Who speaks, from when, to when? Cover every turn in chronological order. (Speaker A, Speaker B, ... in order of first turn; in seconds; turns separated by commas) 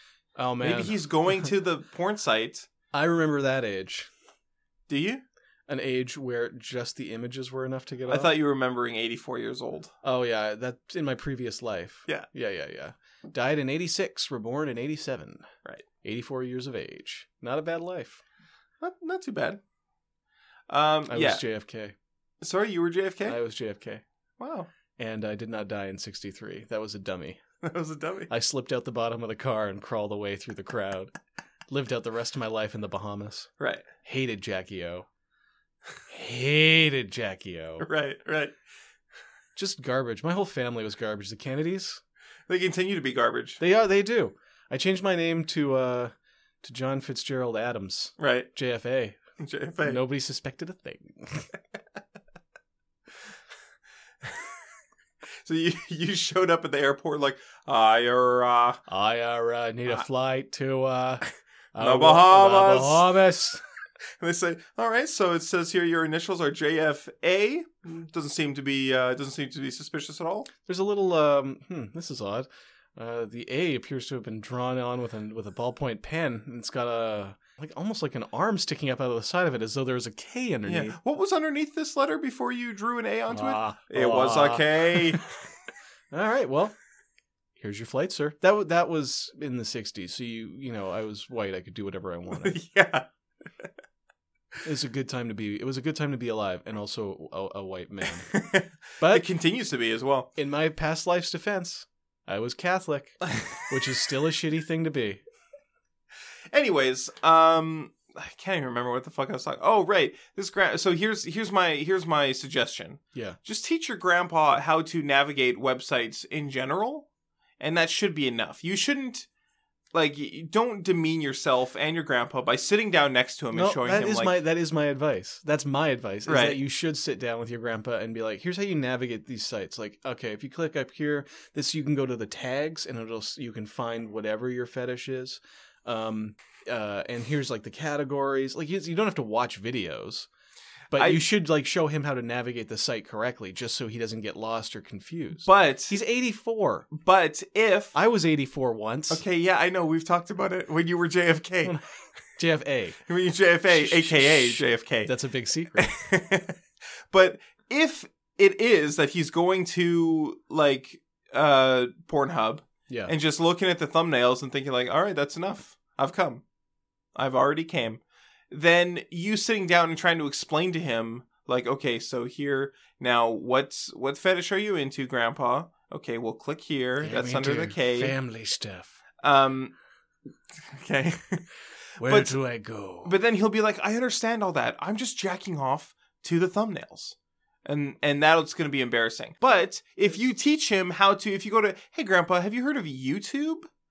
Speaker A: 0.4-1.5, Speaker B: 0.6-2.7, Speaker A: 2.9-4.1, Speaker B: 4.9-5.2, Speaker A: 5.7-8.3, Speaker B: 8.1-9.9, Speaker A: 10.0-15.5, Speaker A: 16.0-18.2, Speaker B: 18.8-19.6, Speaker B: 20.7-21.4, Speaker A: 21.1-21.9, Speaker B: 22.4-23.4, Speaker A: 23.2-24.0, Speaker B: 24.4-24.7, Speaker A: 25.0-27.4, Speaker B: 27.6-28.3, Speaker A: 28.3-31.1, Speaker A: 31.7-33.5, Speaker B: 33.6-33.9, Speaker A: 34.0-35.1, Speaker A: 36.1-37.9, Speaker B: 37.8-38.5, Speaker A: 39.6-42.0, Speaker B: 42.5-43.6, Speaker A: 43.6-49.2, Speaker B: 48.2-48.5, Speaker B: 49.4-50.0, Speaker A: 49.8-51.5, Speaker B: 55.4-58.8, Speaker A: 58.9-63.6, Speaker B: 61.8-63.1, Speaker B: 64.2-70.5, Speaker A: 70.6-81.0, Speaker B: 80.7-85.3, Speaker A: 83.3-85.2, Speaker A: 86.1-86.8, Speaker A: 87.6-92.6, Speaker B: 92.3-93.1, Speaker A: 94.6-98.3, Speaker B: 98.3-100.3, Speaker A: 99.0-99.3, Speaker A: 100.4-105.2, Speaker B: 103.2-103.6, Speaker B: 106.5-117.1, Speaker B: 117.6-119.3, Speaker B: 119.9-124.3, Speaker A: 123.5-140.3, Speaker B: 126.3-126.6, Speaker A: 140.9-146.9, Speaker B: 140.9-141.2, Speaker B: 145.4-146.0, Speaker B: 146.9-148.0, Speaker A: 147.9-149.2, Speaker B: 149.1-151.8, Speaker A: 152.4-153.0, Speaker B: 153.1-155.1, Speaker A: 153.7-155.9, Speaker B: 155.8-166.4, Speaker B: 167.2-178.2, Speaker A: 177.0-179.0, Speaker B: 179.2-179.7, Speaker B: 180.6-181.4, Speaker A: 182.0-183.1, Speaker B: 182.0-182.4, Speaker B: 183.0-193.7